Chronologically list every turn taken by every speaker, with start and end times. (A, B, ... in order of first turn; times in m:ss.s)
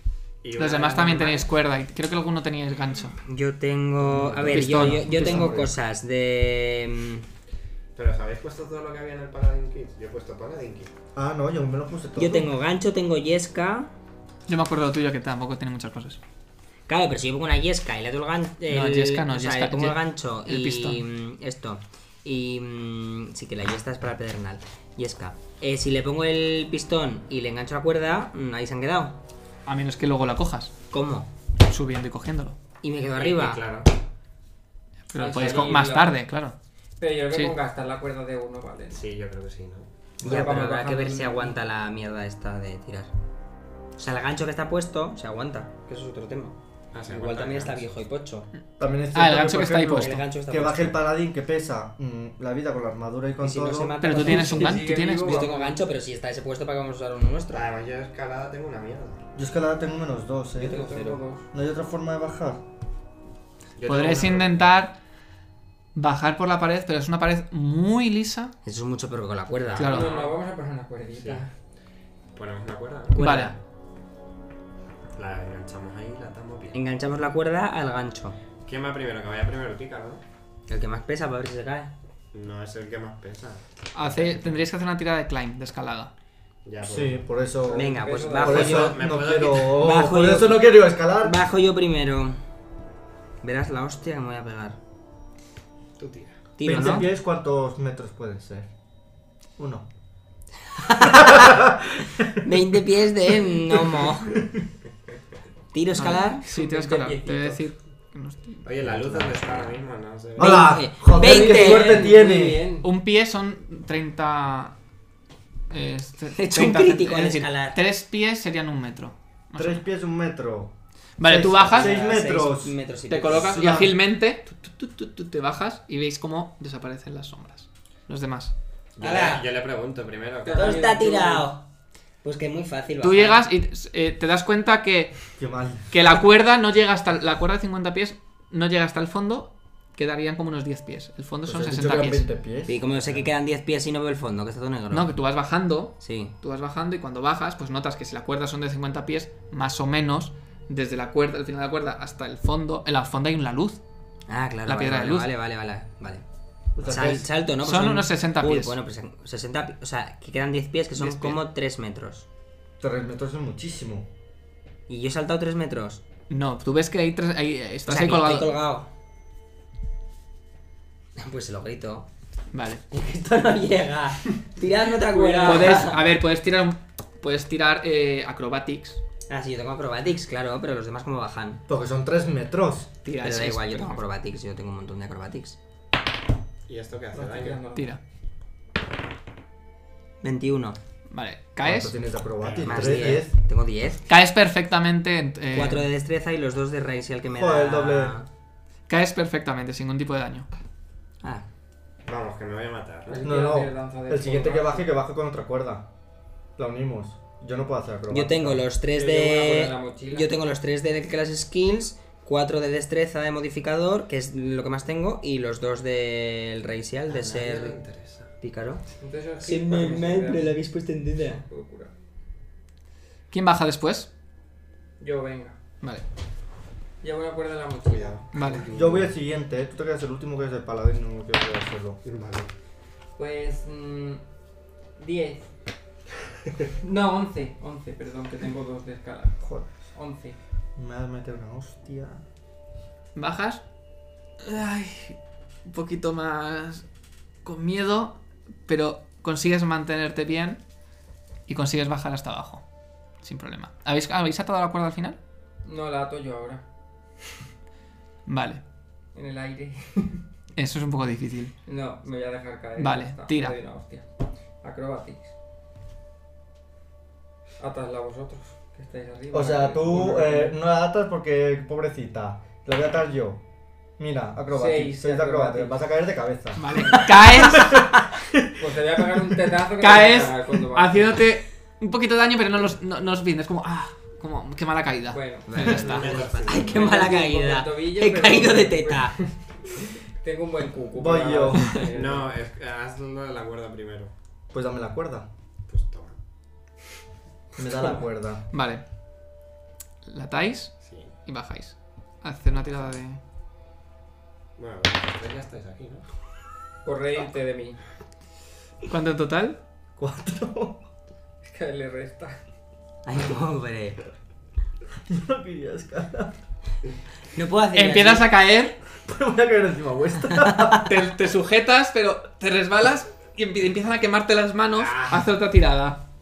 0:00.4-0:01.5 A
0:00.6-0:03.2 B
0:03.2-0:07.3 C
0:04.0-0:05.7 D
0:04.5-0:05.6 B
0:08.0-0:10.9 A
0:11.2-0:12.5 D
0:12.2-0:13.9 C
0:14.5-0:16.2 B
0:16.9-0:29.2 C
0:18.7-0:21.0 B
0:29.7-0:30.8 B
0:30.9-0:31.3 C
0:31.6-0:32.6 B
0:32.8-0:33.6 C
0:33.2-0:33.9 A
0:35.1-0:36.6 B
0:35.1-0:36.2 E
0:37.0-0:39.0 E
0:38.9-0:39.9 A
0:40.2-0:41.6 E
0:40.2-0:43.1 C
0:44.0-0:48.5 C
0:46.9-0:48.0 A
0:48.8-0:54.5 D
0:49.1-0:50.2 B
0:50.0-0:51.0 C
0:53.4-0:57.7 C
0:54.0-0:55.4 B
0:54.2-0:55.8 E
0:57.5-0:59.2 A
0:59.4-1:00.8 D
1:00.6-1:01.5 E
1:00.7-1:01.2 C
1:01.5-1:02.6 D
1:03.8-1:04.7 A
1:03.9-1:05.0 B
1:06.0-1:08.5 B
1:08.6-1:09.9 C
1:09.7-1:10.3 A
1:09.8-1:10.1 B
1:09.8-1:11.5 E
1:11.2-1:11.5 A
1:12.3-1:13.3 A
1:13.1-1:13.6 C
1:13.2-1:13.5 B
1:15.2-1:16.8 A
1:16.7-1:18.4 C
1:18.6-1:20.2 A
1:20.7-1:21.9 C
1:22.3-1:24.4 A
1:23.9-1:26.1 B
1:26.6-1:27.2 A
1:26.8-1:31.4 D
1:27.6-1:28.9 E
1:27.7-1:29.1 C
1:28.4-1:29.8 A
1:29.7-1:32.4 C
1:33.4-1:34.8 C
1:36.0-1:36.4 A
1:36.6-1:37.1 C
1:36.6-1:38.7 D
1:36.7-1:37.1 B
1:39.6-1:39.9 D
1:40.8-1:41.7 C
1:41.0-1:42.6 D
1:42.4-1:44.4 C
1:45.7-1:46.4 C
1:45.9-1:48.7 B
1:46.4-1:47.6 E
1:48.6-1:50.8 A
1:50.4-1:52.7 D
1:50.4-1:52.1 C
1:51.1-1:52.9 E
1:52.8-1:54.8 B
1:55.7-1:59.9 B
1:56.3-1:57.8 C
1:59.6-2:02.8 D
2:01.2-2:02.1 B
2:01.7-2:03.5 C
2:03.1-2:08.5 B
2:03.3-2:04.0 D
2:09.0-2:11.0 A
2:09.0-2:09.5 C
2:10.4-2:11.5 E
2:10.5-2:11.6 C
2:12.2-2:13.4 C
2:13.0-2:15.2 B
2:15.4-2:15.9 D
2:15.9-2:22.3 B
2:21.5-2:23.1 D
2:22.7-2:25.1 C
2:24.9-2:33.8 B
2:26.0-2:26.3 C
2:34.3-2:36.2 C
2:34.7-2:35.3 B
2:36.8-2:37.3 D
2:36.8-2:42.3 C
2:37.6-2:38.8 B
2:41.0-2:41.4 B
2:42.8-2:44.1 D
2:44.9-2:46.0 C
2:46.3-2:48.6 B
2:47.9-2:48.9 C
2:51.2-2:52.1 C
2:52.5-2:52.8 B
2:52.9-2:56.0 C
2:55.0-2:55.9 E
2:55.4-2:59.0 B
2:59.3-3:01.6 C
3:01.7-3:02.9 D
3:03.0-3:04.0 B
3:03.2-3:05.6 C
3:06.7-3:07.6 A
3:07.1-3:07.9 E
3:07.8-3:08.0 B
3:10.2-3:10.8 C
3:11.1-3:12.0 B
3:11.6-3:13.4 D
3:12.4-3:13.3 A
3:12.6-3:14.0 C
3:14.1-3:15.9 B
3:15.5-3:18.3 C
3:17.4-3:18.2 D
3:18.9-3:20.5 B
3:22.0-3:23.2 A
3:23.1-3:24.9 E
3:23.2-3:25.9 D
3:26.6-3:28.6 D
3:28.1-3:37.8 C
3:28.9-3:30.4 E
3:37.1-3:38.3 A
3:38.4-3:38.8 C
3:39.0-3:40.6 E
3:39.4-3:41.4 C
3:41.3-3:41.9 E
3:43.3-3:44.1 B
3:45.0-3:45.6 E
3:47.0-3:49.0 E
3:47.9-3:49.1 A
3:48.3-3:48.6 B
3:48.7-3:52.0 D
3:52.0-3:52.5 A
3:53.2-3:54.2 E
3:55.0-3:55.5 E
3:56.8-4:00.4 E
3:59.4-3:59.7 D
4:00.8-4:02.2 D
4:03.2-4:03.6 B
4:04.4-4:06.9 B
4:07.4-4:10.6 B
4:11.5-4:12.6 B
4:13.2-4:15.2 B
4:15.6-4:16.6 E
4:18.3-4:18.6 B
4:19.2-4:20.2 E
4:20.6-4:21.5 B
4:21.7-4:24.1 E
4:22.8-4:23.6 B
4:24.6-4:25.3 E
4:27.6-4:30.6 E
4:29.3-4:33.4 D
4:34.0-4:38.5 D
4:34.5-4:35.8 E
4:36.6-4:37.8 B
4:38.6-4:41.2 E
4:39.8-4:46.2 B
4:45.1-4:45.8 E
4:45.5-4:49.2 C
4:45.6-4:46.9 A
4:46.5-4:52.3 E
4:51.0-4:51.8 D
4:51.9-4:54.1 A
4:54.5-4:55.3 D
4:55.7-4:56.2 A
4:57.6-4:58.5 D
4:58.5-4:58.8 B
5:00.1-5:03.2 B
5:00.8-5:01.1 A
5:04.6-5:06.0 A
5:06.8-5:07.8 E
5:08.9-5:09.6 B
5:10.0-5:10.8 D
5:11.4-5:12.4 E
5:13.1-5:14.0 C
5:15.1-5:16.4 D
5:17.3-5:18.2 C
5:17.7-5:18.8 B
5:19.1-5:20.9 D
5:20.5-5:20.7 C
5:20.8-5:26.0 B
5:24.8-5:25.3 A